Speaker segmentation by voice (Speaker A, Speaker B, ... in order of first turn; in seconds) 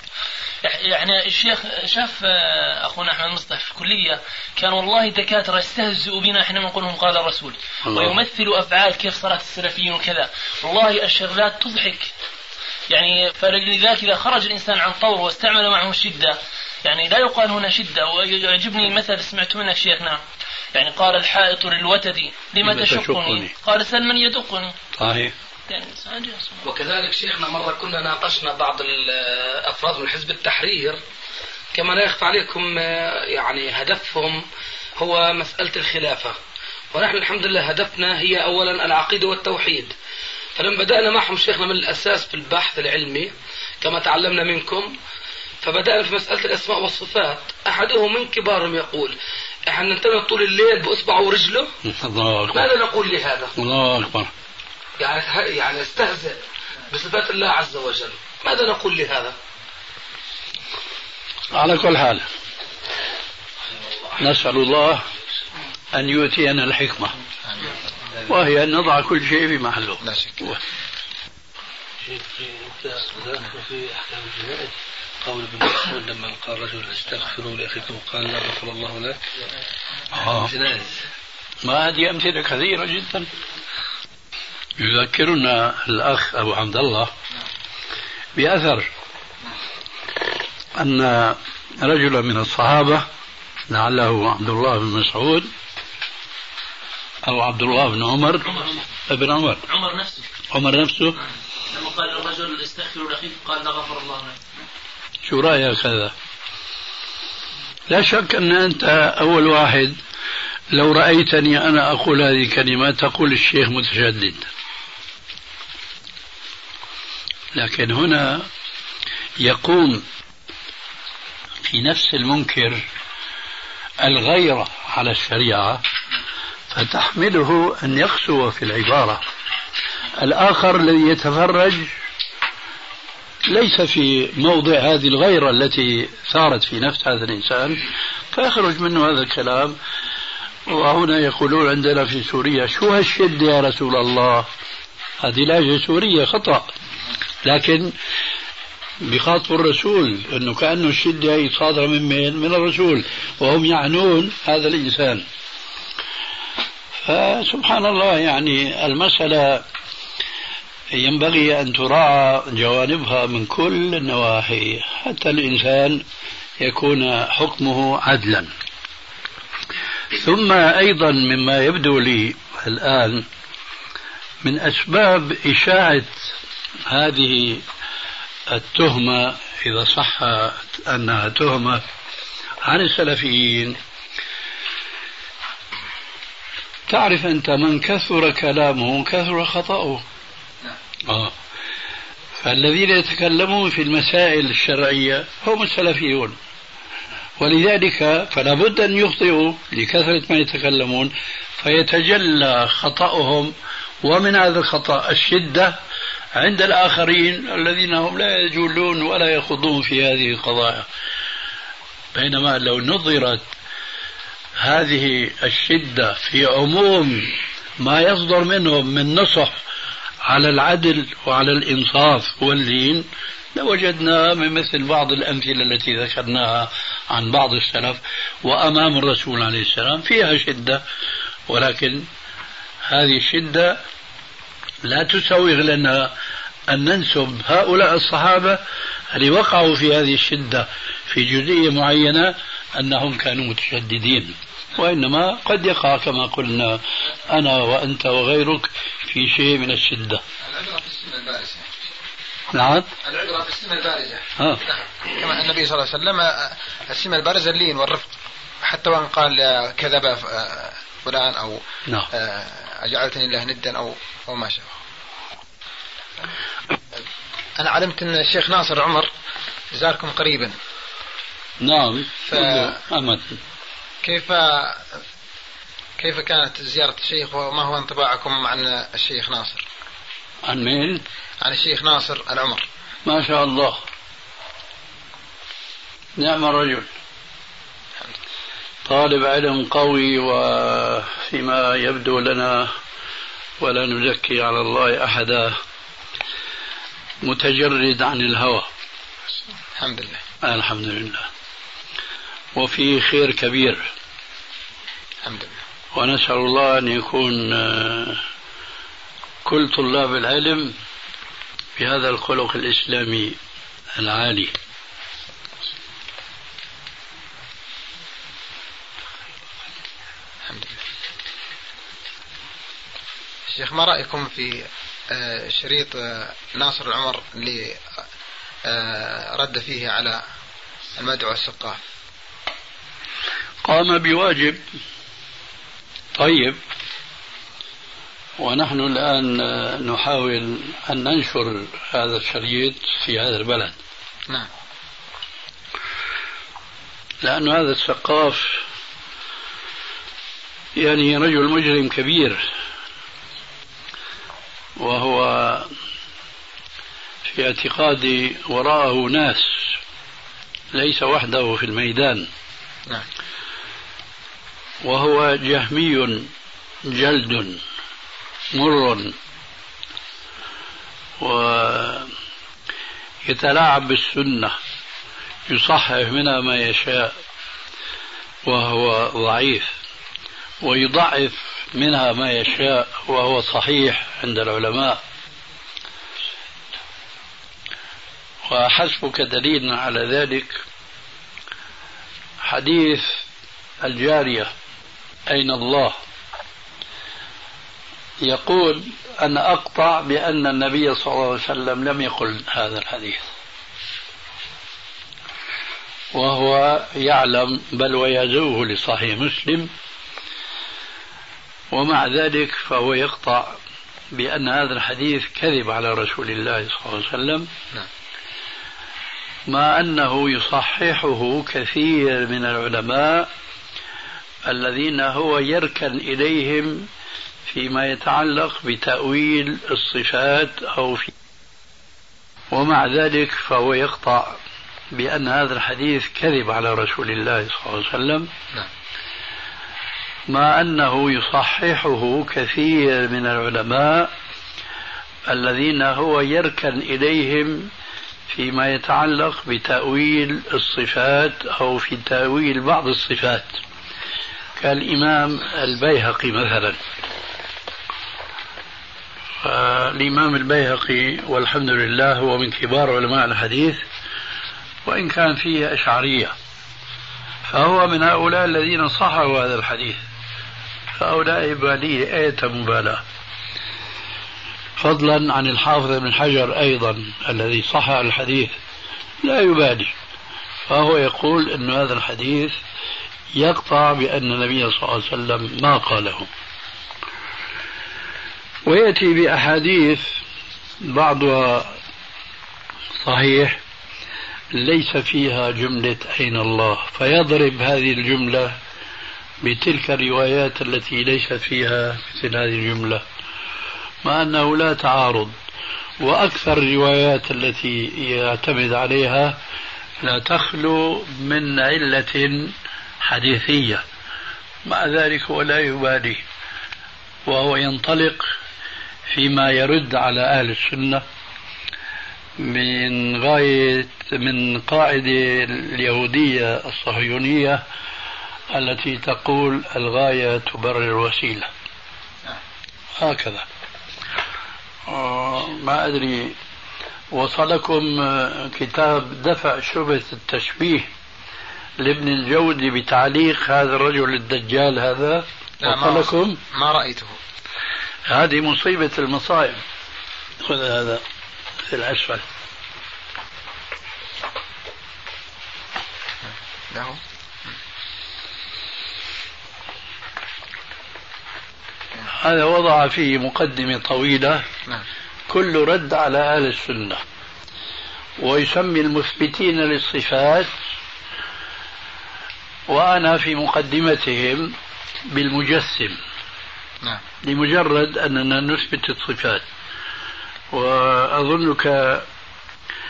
Speaker A: 0.6-12.1, 12.9-20.2, 20.7-24.8, 25.7-26.6, 98.5-98.8, 99.7-100.3, 101.7-104.4
Speaker B: 7.8-8.2, 22.6-23.5, 25.0-25.3, 51.8-52.7, 53.6-54.3, 61.5-62.3, 64.2-65.0, 65.9-67.2, 68.3-70.6, 80.1-80.5, 81.6-83.3, 84.8-87.1, 88.4-88.9, 90.8-93.1, 93.7-95.5, 97.2-99.7, 100.5-101.2, 105.2-106.1, 107.9-110.0, 110.7-114.5, 117.5-118.5, 119.4-120.0, 121.7-122.8, 124.0-125.8, 126.7-129.2, 130.2-131.9, 133.5-139.8, 140.7-144.5, 145.2-146.7, 147.4-147.9, 149.0-155.2, 157.1-159.7, 160.9-166.0, 166.6-168.5, 170.1-173.3, 174.4-176.3, 176.9-177.6, 178.5-181.8, 182.6-183.8, 186.9-190.0, 191.1-191.3, 192.4-196.4, 197.4-205.8, 206.3-210.9, 212.1-213.5, 214.6-219.6, 220.2-230.8, 231.5-232.1, 232.8-233.8, 234.8-236.1, 236.7-250.2, 252.5-252.9, 271.6-273.4, 280.5-281.0, 283.1-283.8, 286.2-286.9, 288.9-292.7, 293.6-295.6, 297.2-298.7, 300.4-301.3, 302.6-303.9, 305.9-308.2, 309.4-310.8, 311.8-313.4, 314.0-314.5, 333.6-334.6, 336.2-336.6, 338.4-343.8, 347.2-348.6, 350.8-352.4, 354.8-355.7, 357.2-359.8, 360.7-362.3, 364.8-366.3, 366.9-367.6, 368.5-369.1, 371.2-372.1, 373.2-374.6, 375.5-377.2, 378.4-379.7, 380.6-385.0, 388.5-390.6, 392.4-393.2, 393.8-394.5, 395.3-396.0, 398.2-403.3, 406.1-409.7, 411.7-413.6, 414.1-417.5, 419.5-423.3, 424.4-426.9, 427.5-431.1, 432.5-434.4, 434.9-438.3, 440.3-444.1, 445.3-447.7, 448.3-453.6, 454.6-456.8, 459.4-463.8, 464.9-466.4, 467.5-470.0, 471.0-473.0, 474.8-478.6, 479.2-479.9, 480.7-482.6, 483.3-486.3, 488.6-490.2, 490.8-491.8, 493.0-493.6, 494.5-498.6, 499.4-503.0, 504.0-505.4, 506.0-509.4, 510.0-513.8, 514.6-516.2, 517.3-518.3, 519.1-521.0, 522.4-527.6, 528.5-531.5, 533.0-533.5, 534.9-536.4, 537.1-540.9, 541.8-546.4, 548.1-549.6, 550.4-551.0, 551.7-552.2, 562.1-564.5, 565.3-567.0, 568.2-570.5, 572.7-574.5, 575.1-576.0, 577.2-579.4, 580.5-582.1
Speaker C: 26.6-31.0, 31.7-34.4, 35.0-36.4, 36.9-39.9, 40.6-45.0, 45.6-51.7, 52.5-53.5, 55.0-59.4
Speaker D: 67.5-67.7, 70.0-70.6, 250.4-251.7, 253.0-264.8, 267.6-269.1, 269.7-270.5, 272.3-272.8, 274.0-275.0, 276.0-279.7, 281.4-282.7, 299.7-300.2, 305.2-305.6, 320.5-320.8, 323.5-327.8, 328.6-330.2, 331.0-331.8, 545.6-547.2, 556.2-557.5
Speaker E: 72.0-79.3, 80.2-81.0